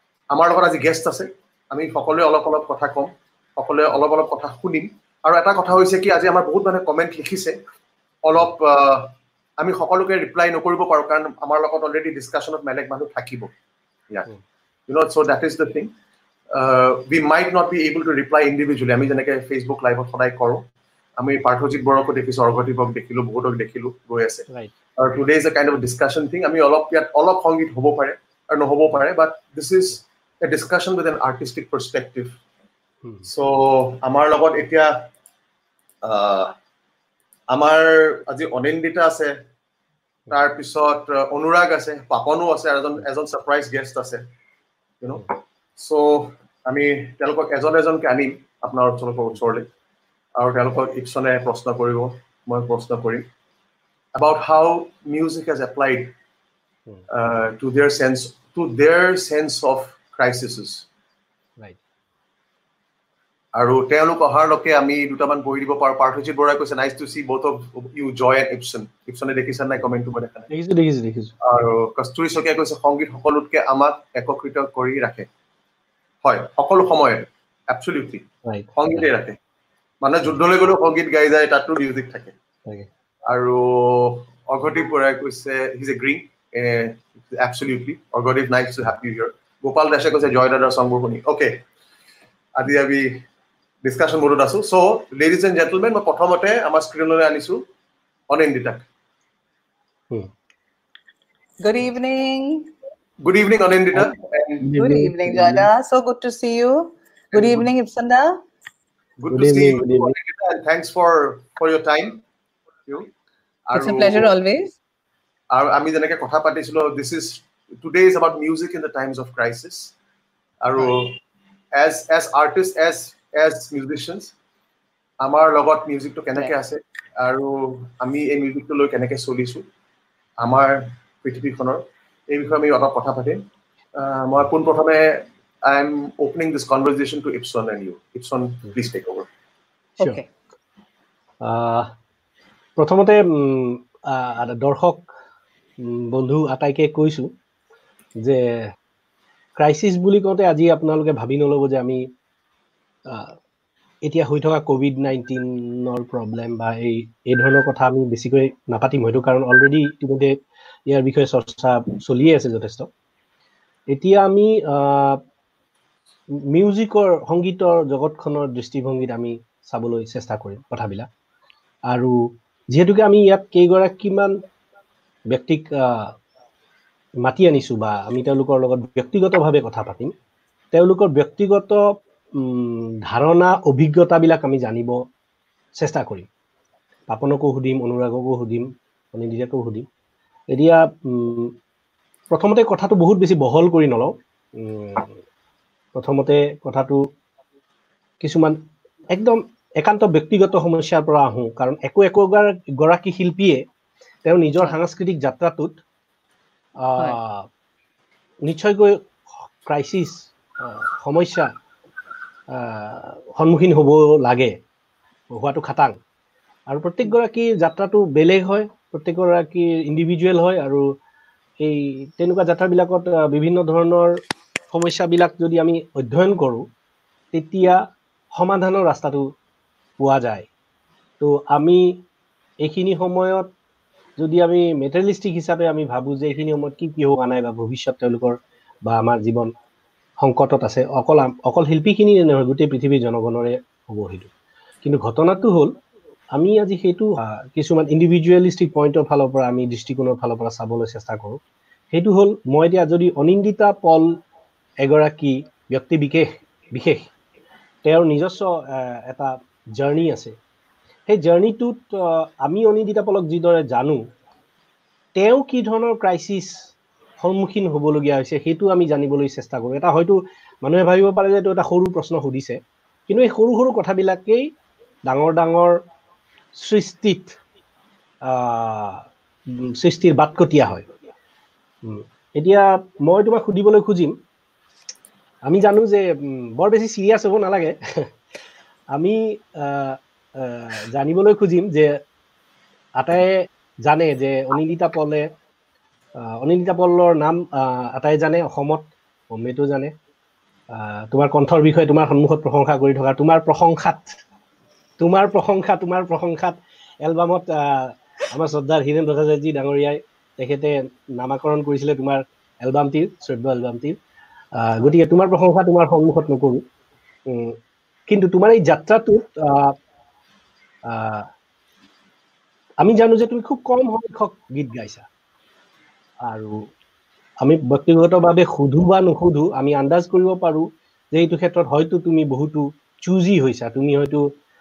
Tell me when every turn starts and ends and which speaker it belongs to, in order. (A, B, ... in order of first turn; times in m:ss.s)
0:00.3-0:07.6 A
0:08.2-0:13.5 A
0:14.9-0:15.9 A
0:16.5-0:20.6 A
0:21.2-0:24.5 A
0:25.0-0:32.4 A
0:33.3-0:35.1 A
0:36.0-0:36.5 A
0:37.5-0:39.3 A
0:40.3-0:44.2 A
0:45.0-0:49.7 A
0:50.4-0:53.2 A
0:54.2-0:56.1 A
0:57.1-1:00.9 A
1:03.6-1:10.5 A
1:10.5-1:11.3 B
1:11.4-1:15.3 A
1:16.2-1:19.4 A
1:18.5-1:19.0 B
1:20.0-1:22.3 A
1:23.3-1:31.6 A
1:32.6-1:33.2 A
1:33.8-1:37.6 A
1:38.3-1:38.8 A
1:41.6-1:42.7 C
1:43.2-1:44.7 A
1:44.7-1:48.4 C
1:44.8-1:45.6 B
1:47.3-1:47.7 A
1:49.2-1:52.2 A
1:49.3-1:50.2 B
1:53.7-1:54.3 A
1:53.8-1:54.8 C
1:55.5-1:59.9 A
2:00.6-2:01.2 A
2:01.7-2:04.3 A
2:05.2-2:09.6 A
2:10.4-2:19.3 A
2:20.0-2:20.3 C
2:21.4-2:21.9 B
2:22.8-2:25.1 B
2:25.8-2:27.3 B
2:28.2-2:28.5 B
2:29.6-2:32.0 B
2:34.0-2:40.4 B
2:40.9-2:42.9 B
2:43.9-2:45.2 B
2:46.5-2:51.1 B
2:51.9-2:52.2 B
2:52.7-2:54.4 B
2:55.3-2:56.1 B
2:57.2-3:00.1 B
3:00.7-3:01.8 B
3:02.4-3:05.0 B
3:05.8-3:06.3 B
3:07.1-3:09.9 B
3:10.5-3:11.5 B
3:12.3-3:15.2 B
3:16.0-3:17.1 B
3:18.2-3:18.6 B
3:19.1-3:23.6 B
3:24.3-3:25.8 B
3:26.8-3:27.5 B
3:28.4-3:31.5 B
3:32.5-3:34.6 B
3:35.3-3:36.0 B
3:36.7-3:40.8 B
3:41.6-3:44.2 B
3:44.7-3:46.7 B
3:47.3-3:49.3 B
3:50.0-3:50.5 B
3:51.2-3:52.0 B
3:52.6-3:53.5 B
3:54.2-3:59.5 B
4:00.2-4:04.3 B
4:04.8-4:05.8 B
4:06.4-4:11.4 B
4:11.9-4:14.1 B
4:14.8-4:17.1 B
4:17.8-4:20.4 B
4:21.1-4:24.0 B
4:25.2-4:26.7 B
4:27.2-4:34.5 B
4:35.1-4:35.8 B
4:36.6-4:37.4 B
4:38.3-4:40.9 B
4:41.8-4:44.2 B
4:45.5-4:48.1 B
4:49.0-4:51.9 B
4:53.0-4:55.3 B
4:56.2-4:59.9 B
5:00.7-5:04.2 B
5:05.0-5:14.0 B
5:14.6-5:16.6 B
5:17.3-5:19.8 B
5:20.9-5:21.3 B
5:22.8-5:25.1 B
5:26.2-5:26.6 B
5:27.4-5:34.3 B